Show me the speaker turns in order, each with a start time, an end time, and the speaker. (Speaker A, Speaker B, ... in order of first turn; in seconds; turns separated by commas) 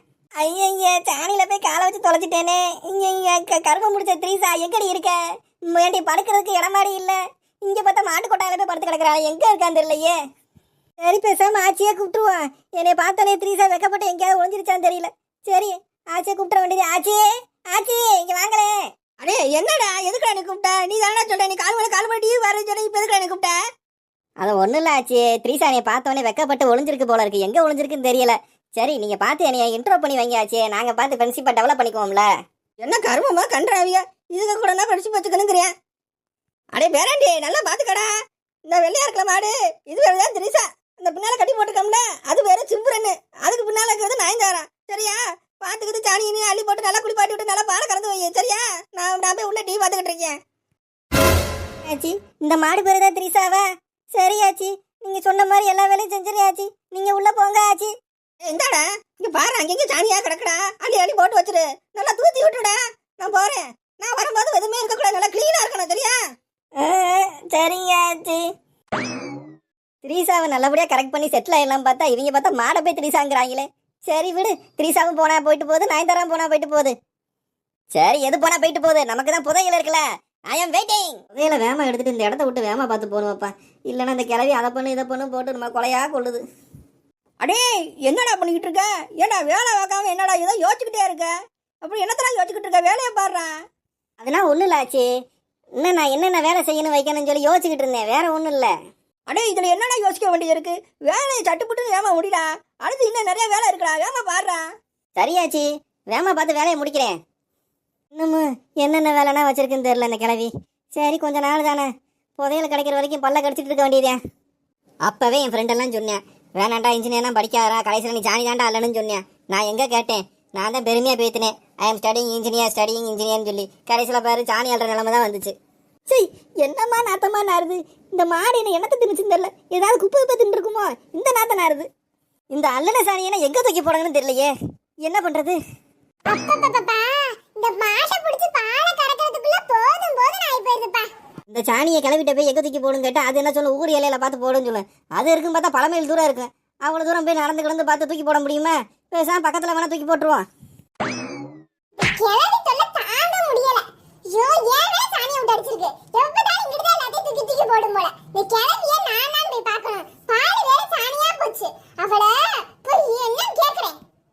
Speaker A: 0.4-5.2, Speaker A: 5.7-10.2, Speaker A: 11.0-18.8, Speaker B: 19.2-23.6, Speaker A: 24.4-32.3, Speaker B: 32.8-35.7, Speaker B: 36.7-38.1, Speaker B: 38.7-50.4, Speaker A: 51.9-57.9, Speaker B: 58.4-66.2, Speaker A: 66.8-68.4, Speaker A: 70.0-76.9, Speaker A: 77.9-86.4, Speaker B: 87.4-91.3, Speaker B: 91.8-93.5, Speaker A: 94.2-95.1, Speaker A: 95.8-98.7, Speaker B: 99.3-104.6, Speaker A: 105.2-107.2, Speaker A: 108.1-111.9, Speaker A: 112.4-114.2, Speaker A: 115.0-125.5, Speaker A: 126.1-131.9, Speaker A: 132.5-134.5, Speaker A: 135.0-135.6, Speaker C: 136.3-141.1, Speaker A: 141.5-150.4, Speaker C: 152.0-164.0